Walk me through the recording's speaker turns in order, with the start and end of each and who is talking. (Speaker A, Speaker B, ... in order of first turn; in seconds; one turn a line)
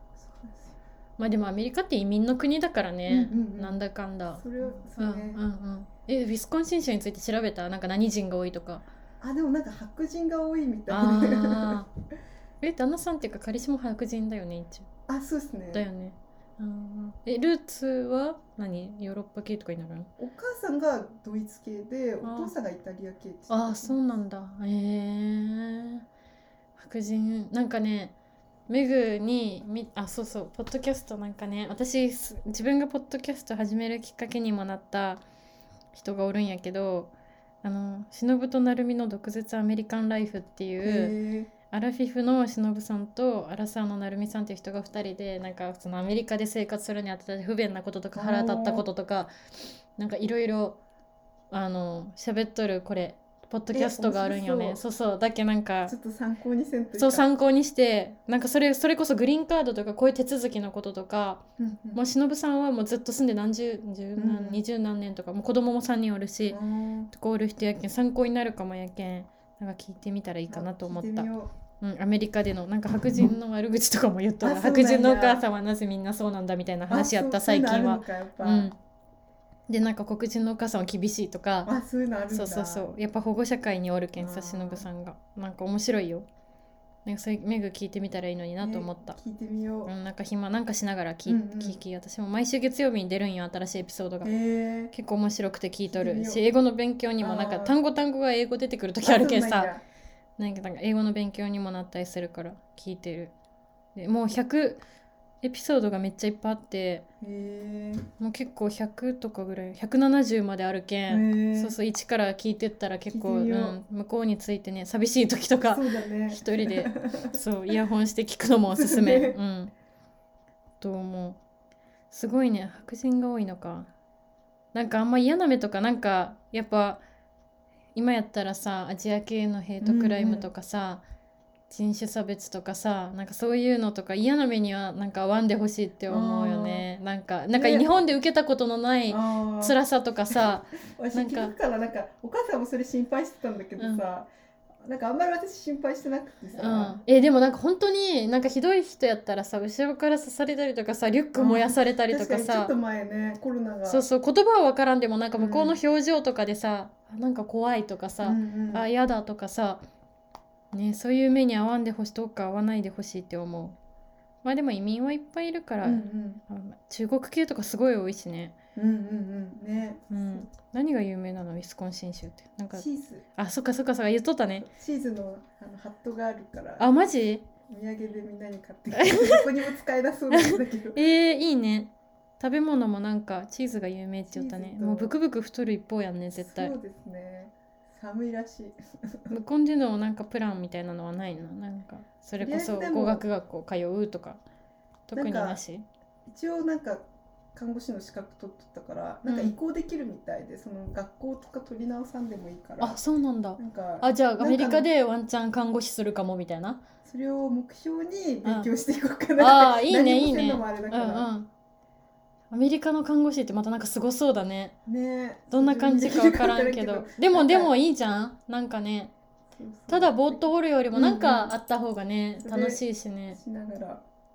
Speaker A: 0.2-0.8
Speaker B: 1.2-8.8
Speaker A: 3.1-3.8
Speaker A: 4.4-5.4
Speaker A: 9.2-11.8
Speaker B: 10.9-11.9
Speaker B: 12.6-14.9
Speaker A: 15.1-15.9
Speaker B: 15.7-20.1
Speaker A: 20.2-24.0
Speaker B: 22.2-22.5
Speaker B: 23.5-26.1
Speaker B: 26.8-28.1
Speaker B: 28.7-35.2
Speaker B: 35.9-37.1
Speaker B: 37.6-41.1
Speaker A: 40.8-41.5
Speaker B: 41.7-49.3
Speaker A: 48.1-48.9
Speaker B: 50.0-50.8
Speaker B: 51.5-55.9
Speaker A: 53.7-54.8
Speaker A: 55.9-57.3
Speaker B: 57.0-61.4
Speaker A: 61.6-62.0
Speaker B: 61.9-66.6
Speaker A: 64.2-64.6
Speaker A: 66.5-67.1
Speaker B: 67.1-71.3
Speaker A: 70.5-71.5
Speaker B: 71.8-78.8
Speaker A: 74.4-75.4
Speaker A: 76.9-78.7
Speaker B: 79.7-81.7
Speaker A: 81.7-82.9
Speaker B: 82.3-86.3
Speaker A: 84.2-84.9
Speaker B: 87.0-89.2
Speaker A: 88.6-89.9
Speaker B: 89.9-94.3
Speaker A: 91.3-91.8
Speaker A: 94.2-94.9
Speaker B: 94.9-99.7
Speaker A: 95.9-96.5
Speaker A: 97.2-97.8
Speaker A: 99.0-99.8
Speaker B: 100.4-103.3
Speaker B: 103.9-104.8
Speaker B: 105.4-107.0
Speaker A: 107.2-108.1
Speaker B: 108.2-119.7
Speaker A: 111.1-111.8
Speaker A: 113.1-113.8
Speaker A: 115.7-117.4
Speaker A: 118.7-119.4
Speaker B: 120.8-121.4
Speaker B: 122.1-123.9
Speaker B: 124.7-127.0
Speaker B: 127.9-131.0
Speaker A: 129.8-130.5
Speaker B: 131.7-141.5
Speaker A: 136.1-136.9
Speaker A: 137.5-138.0
Speaker A: 139.1-139.8
Speaker A: 140.3-144.3
Speaker A: 144.8-147.0
Speaker B: 146.6-152.7
Speaker A: 151.4-154.1
Speaker B: 153.9-159.8
Speaker A: 155.3-155.8
Speaker A: 158.2-158.9
Speaker B: 160.7-163.8
Speaker B: 164.4-168.6
Speaker A: 165.8-166.4
Speaker A: 168.8-170.5
Speaker B: 170.1-172.8
Speaker A: 172.7-173.3
Speaker B: 173.4-174.7
Speaker A: 174.6-176.9
Speaker B: 176.8-177.4
Speaker A: 177.7-181.0
Speaker B: 179.0-179.4
Speaker B: 180.3-186.7
Speaker A: 184.3-185.1
Speaker A: 186.3-189.3
Speaker B: 189.3-194.4
Speaker A: 192.4-193.2
Speaker B: 195.1-195.8
Speaker A: 195.1-195.6
Speaker A: 196.3-197.0
Speaker A: 197.6-203.0
Speaker B: 199.2-199.6
Speaker B: 202.8-206.8
Speaker A: 203.6-204.9
Speaker A: 207.1-211.3
Speaker B: 208.4-208.7
Speaker B: 209.4-211.5
Speaker B: 212.5-214.8
Speaker A: 214.9-217.7
Speaker B: 215.5-219.1
Speaker A: 219.6-221.5
Speaker B: 219.9-223.4
Speaker A: 222.4-224.0